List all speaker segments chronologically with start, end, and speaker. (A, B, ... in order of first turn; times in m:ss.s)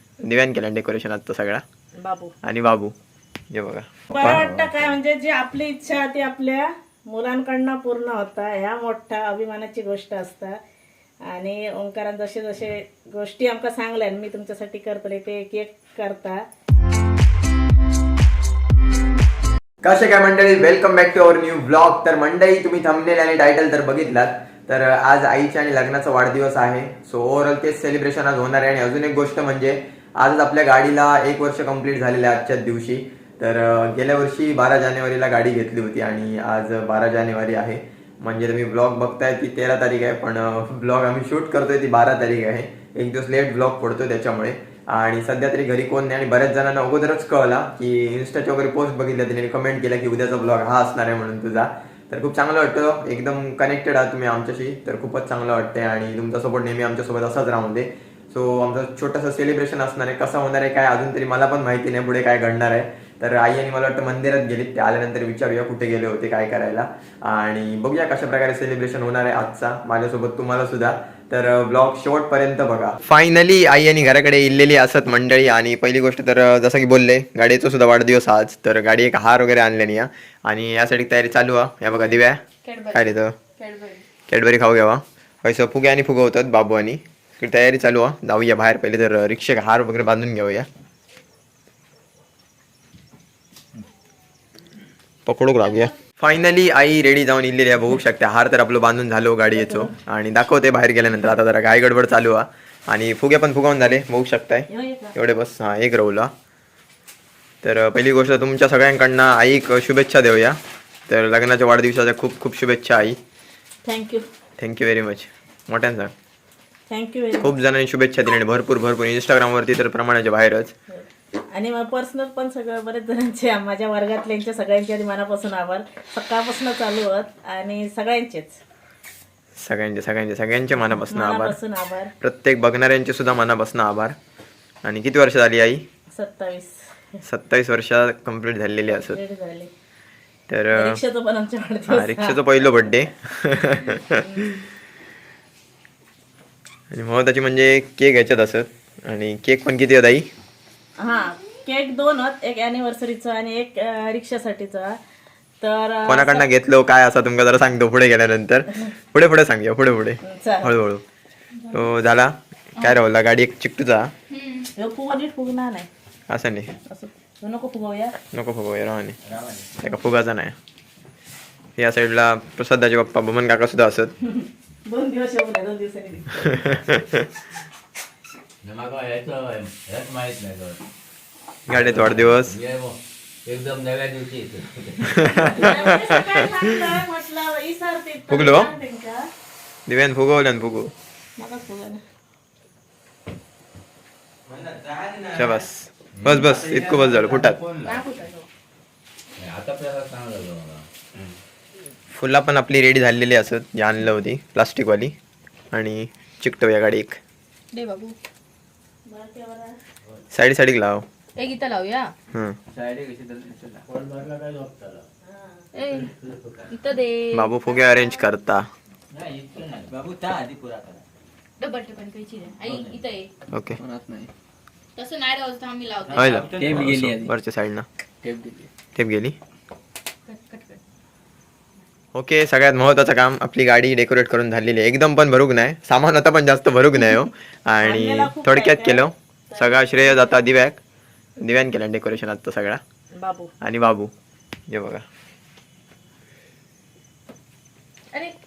0:00.2-0:01.6 A
0:02.0-0:02.3 B
0:02.4-0:02.9 A
0:03.5-0:04.4 A
0:04.1-0:10.6 B
0:04.3-0:04.9 C
0:11.3-0:16.4 B
0:19.8-1:22.4 A
1:21.9-1:24.0 D
1:22.9-1:23.3 A
1:24.3-1:30.7 A
1:35.3-1:46.3 A
1:39.5-1:39.9 B
1:44.7-1:45.2 B
1:47.6-1:50.6 A
1:51.1-1:53.2 A
1:53.8-1:54.2 B
1:54.6-1:56.1 A
1:56.9-1:57.5 B
1:57.4-2:00.7 A
2:00.9-2:08.6 B
2:09.6-2:11.6 A
2:11.0-2:12.1 B
2:12.2-2:14.2 A
2:14.8-2:15.8 A
2:16.1-2:17.2 B
2:17.2-2:19.2 A
2:18.9-2:19.7 B
2:20.5-2:21.0 A
2:20.8-2:22.4 B
2:21.9-2:24.7 A
2:24.2-2:24.5 B
2:26.9-2:30.3 A
2:31.0-2:35.0 B
2:35.6-2:36.5 B
2:36.1-2:41.0 A
2:40.2-2:40.7 B
2:41.7-2:44.1 A
2:44.3-2:44.7 D
2:44.8-2:45.9 B
2:46.3-2:46.7 A
2:46.9-2:48.2 B
2:48.3-2:49.2 A
2:49.2-2:49.8 C
2:49.8-2:50.6 A
2:51.8-2:54.1 A
2:54.3-2:56.9 B
2:56.5-2:57.2 A
2:58.6-3:00.8 C
3:01.7-3:02.6 A
3:01.7-3:05.5 C
3:05.1-3:06.9 A
3:05.4-3:09.2 B
3:08.3-3:08.7 A
3:09.9-3:10.9 A
3:11.4-3:12.0 B
3:14.5-3:15.6 C
3:15.3-3:17.6 A
3:16.2-3:18.0 C
3:17.8-3:18.5 B
3:19.4-3:21.3 C
3:22.1-3:25.1 A
3:25.7-3:27.2 A
3:27.7-3:28.2 D
3:29.1-3:29.8 B
3:30.3-3:31.0 A
3:31.4-3:32.1 D
3:32.7-3:34.0 C
3:35.2-3:35.7 B
3:35.7-3:36.1 D
3:35.9-3:36.7 C
3:36.7-3:38.3 D
3:37.3-3:38.7 A
3:39.2-3:39.7 D
3:39.7-3:41.0 C
3:41.6-3:43.3 D
3:42.6-3:43.0 C
3:43.5-3:43.8 A
3:43.8-3:44.3 C
3:45.0-3:46.8 D
3:46.1-3:47.3 C
3:46.1-3:47.9 A
3:48.2-3:48.7 C
3:49.0-3:49.4 A
3:50.3-3:50.8 D
3:52.1-4:00.8 A
3:57.8-4:00.4 B
4:01.4-4:02.8 A
4:03.2-4:03.5 B
4:03.6-4:04.1 A
4:04.7-4:05.0 A